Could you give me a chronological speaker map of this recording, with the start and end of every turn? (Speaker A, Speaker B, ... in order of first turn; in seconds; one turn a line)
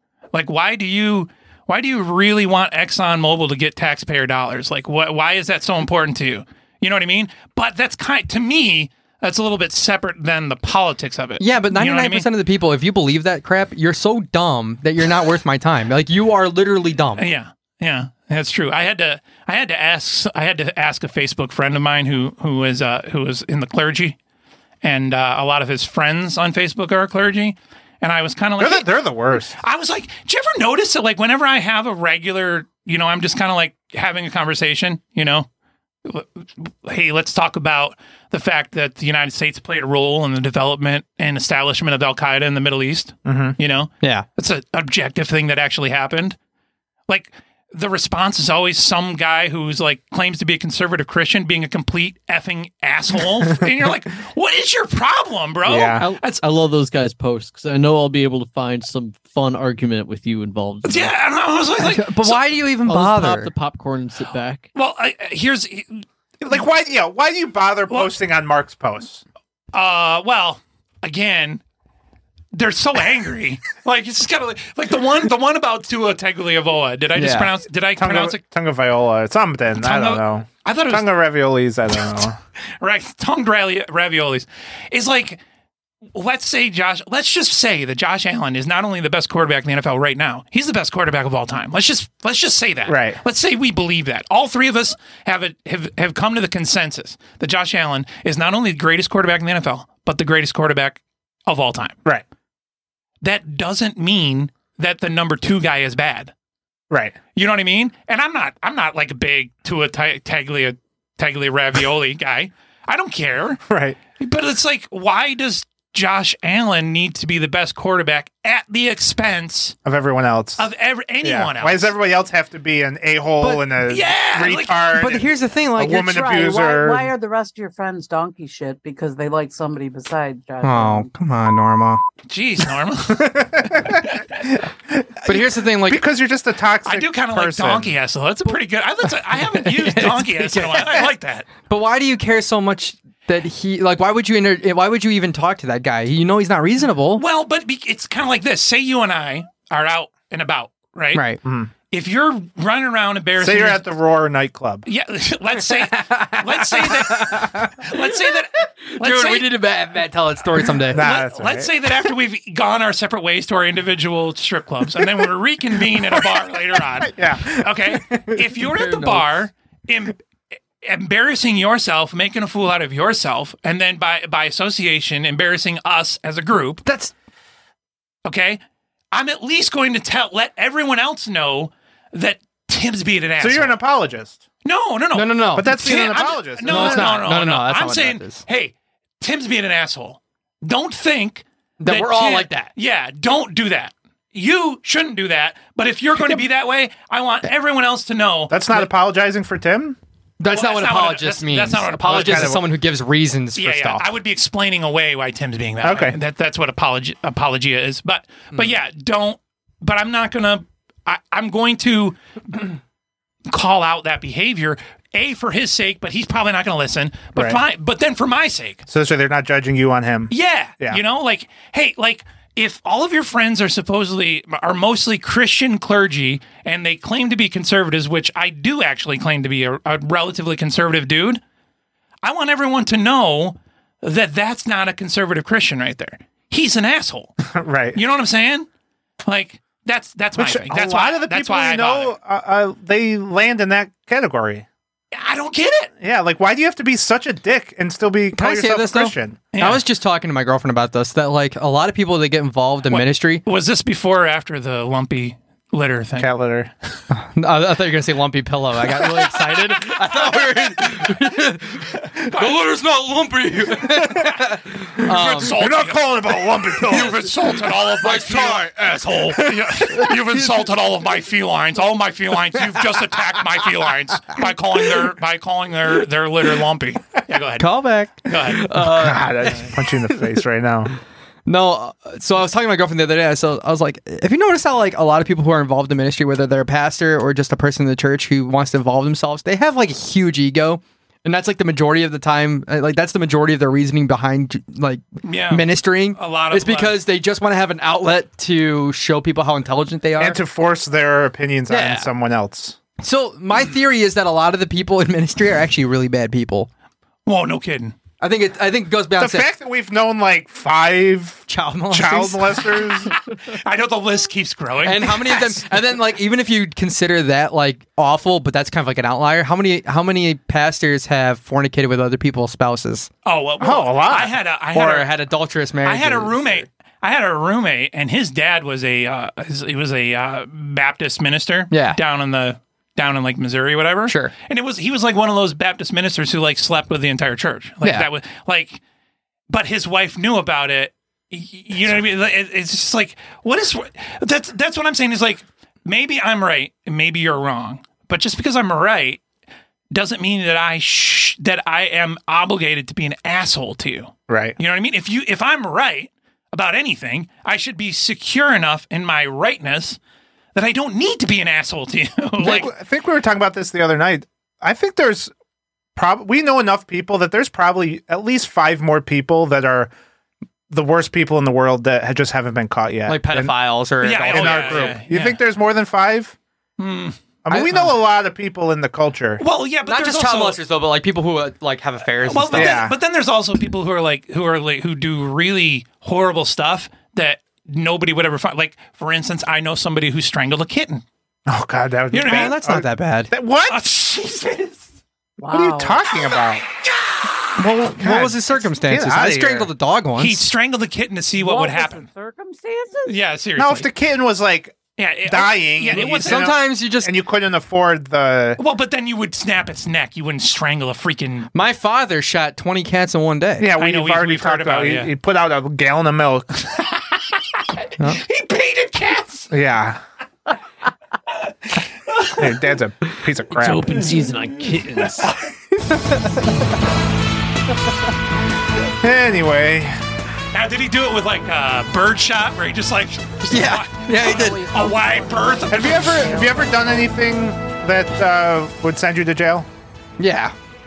Speaker A: 0.3-12.3
Speaker B: 11.4-17.3
Speaker A: 17.2-24.2
Speaker A: 24.8-28.9
Speaker C: 28.6-29.6
Speaker A: 29.6-35.5
Speaker A: 36.0-46.4
Speaker C: 43.2-43.6
Speaker A: 47.1-56.4
Speaker C: 55.6-56.1
Speaker D: 56.0-61.1
Speaker A: 60.9-62.6
Speaker B: 61.8-63.5
Speaker D: 62.8-64.7
Speaker A: 64.8-66.5
Speaker C: 66.4-69.2
Speaker A: 67.9-68.1
Speaker A: 69.7-71.6
Speaker A: 72.5-78.4
Speaker B: 77.2-77.5
Speaker C: 78.0-82.4
Speaker A: 79.8-81.1
Speaker A: 82.8-85.4
Speaker A: 86.1-102.0
Speaker C: 92.9-93.2
Speaker A: 103.2-106.3
Speaker C: 106.9-107.2
Speaker A: 107.3-113.6
Speaker C: 113.7-114.0
Speaker A: 114.2-119.8
Speaker C: 119.8-120.7
Speaker A: 120.6-121.9
Speaker C: 121.2-127.1
Speaker A: 123.9-125.2
Speaker B: 124.9-126.1
Speaker E: 125.8-131.1
Speaker B: 130.6-132.0
Speaker A: 132.3-134.2
Speaker C: 133.1-137.9
Speaker B: 135.2-136.1
Speaker A: 136.8-141.5
Speaker B: 139.4-141.1
Speaker B: 141.6-147.2
Speaker A: 147.2-151.3
Speaker B: 151.1-151.4
Speaker C: 151.4-151.7
Speaker A: 151.9-153.9
Speaker C: 153.4-154.8
Speaker A: 154.9-159.6
Speaker B: 155.9-157.9
Speaker B: 159.0-161.1
Speaker C: 160.9-161.7
Speaker A: 160.9-170.2
Speaker C: 167.0-168.2
Speaker B: 168.7-169.3
Speaker A: 170.8-176.8
Speaker B: 176.9-177.1
Speaker A: 178.2-178.6
Speaker A: 179.1-183.8
Speaker C: 183.4-184.4
Speaker A: 184.7-198.9
Speaker B: 185.1-185.7
Speaker C: 185.6-187.3
Speaker B: 186.7-188.4
Speaker B: 191.8-192.7
Speaker C: 198.5-200.0
Speaker B: 200.4-204.1
Speaker A: 200.5-202.6
Speaker C: 202.0-202.7
Speaker A: 203.6-212.7
Speaker C: 205.8-206.2
Speaker A: 213.5-218.8
Speaker C: 218.9-221.0
Speaker A: 220.3-231.4
Speaker A: 232.2-237.4
Speaker C: 237.4-238.0
Speaker A: 237.9-238.7
Speaker A: 239.2-242.1
Speaker C: 240.4-244.7
Speaker A: 245.1-245.9
Speaker C: 246.0-249.5
Speaker B: 248.4-253.4
Speaker A: 249.5-249.8
Speaker A: 252.9-256.3
Speaker C: 256.2-256.7
Speaker B: 257.1-265.6
Speaker A: 265.0-278.7
Speaker C: 265.4-270.1
Speaker B: 266.9-267.4
Speaker B: 268.0-268.9
Speaker B: 277.6-279.9
Speaker C: 278.8-280.9
Speaker B: 281.5-300.4
Speaker A: 295.2-297.0
Speaker C: 300.2-302.8
Speaker B: 301.7-302.1
Speaker B: 303.0-306.7
Speaker A: 307.3-308.0
Speaker B: 308.2-309.5
Speaker C: 309.2-313.1
Speaker B: 311.5-312.6
Speaker A: 313.5-315.7
Speaker B: 314.8-323.1
Speaker A: 323.2-325.1
Speaker C: 323.6-324.4
Speaker B: 324.7-326.7
Speaker A: 325.8-338.8
Speaker B: 331.7-332.0
Speaker B: 334.1-334.3
Speaker A: 339.5-349.2
Speaker A: 349.9-360.0
Speaker C: 354.3-354.6
Speaker A: 360.6-362.7
Speaker C: 362.4-365.3
Speaker C: 366.0-369.9
Speaker C: 370.7-373.6
Speaker B: 373.1-375.0
Speaker A: 374.0-375.4
Speaker C: 374.3-376.4
Speaker A: 376.8-377.2
Speaker C: 377.4-379.4
Speaker B: 377.5-378.0
Speaker A: 379.4-380.6
Speaker B: 379.9-382.8
Speaker A: 382.2-391.0
Speaker C: 382.5-383.0
Speaker C: 391.5-393.8
Speaker A: 392.1-392.6
Speaker B: 392.2-393.3
Speaker A: 393.7-394.9
Speaker E: 395.4-396.0
Speaker C: 395.5-396.6
Speaker C: 397.6-399.7
Speaker B: 397.8-400.4
Speaker A: 400.2-402.0
Speaker E: 401.4-403.2
Speaker A: 403.1-403.9
Speaker C: 403.6-408.6
Speaker A: 405.0-406.6
Speaker B: 405.9-407.1
Speaker A: 408.6-411.5
Speaker B: 411.5-413.7
Speaker C: 413.6-416.5
Speaker A: 413.8-415.1
Speaker A: 418.1-419.5
Speaker C: 419.5-420.0
Speaker A: 422.1-422.4
Speaker C: 422.3-424.1
Speaker D: 423.5-425.3
Speaker A: 425.0-425.3
Speaker B: 425.9-426.2
Speaker C: 429.0-429.9
Speaker A: 430.5-436.4
Speaker B: 433.5-434.6
Speaker E: 434.2-436.8
Speaker C: 435.7-439.7
Speaker B: 440.2-440.6